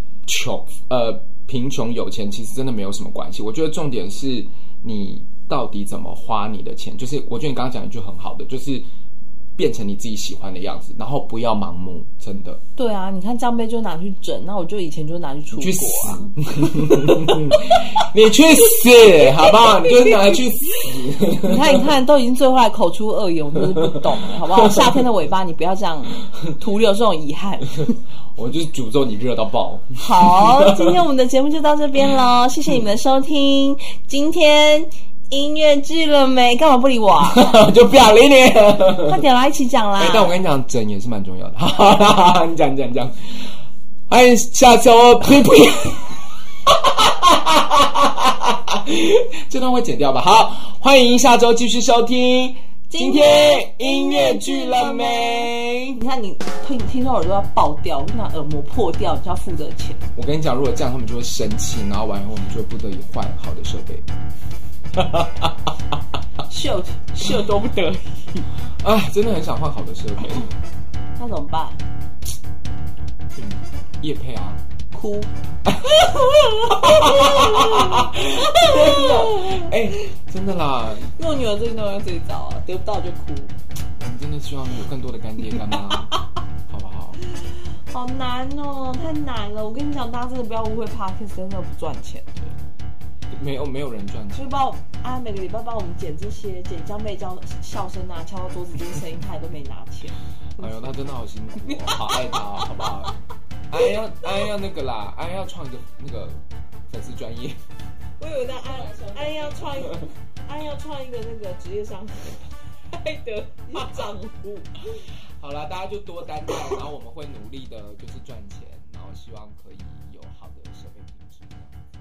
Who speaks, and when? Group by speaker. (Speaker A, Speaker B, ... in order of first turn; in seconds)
Speaker A: 0.2-8.8, 9.6-12.6, 15.5-21.9, 24.4-25.1, 28.4-31.0, 37.3-39.2, 40.0-43.5, 44.1-56.0, 60.1-64.0, 64.9-65.7, 68.8-70.5, 73.3-74.6, 76.7-81.1, 84.0-86.1, 86.7-87.2, 93.3-94.5, 100.6-103.1, 103.7-107.6, 109.8-110.1, 115.4-121.7
Speaker B: 12.8-18.1, 19.2-20.4, 21.4-27.9, 30.0-37.6, 39.0-40.3, 52.9-60.0, 66.5-68.5, 71.2-71.8, 74.9-75.3, 75.8-80.1, 81.1-83.5, 85.6-85.9, 87.9-92.4, 94.3-100.8, 101.6-103.1, 108.2-115.0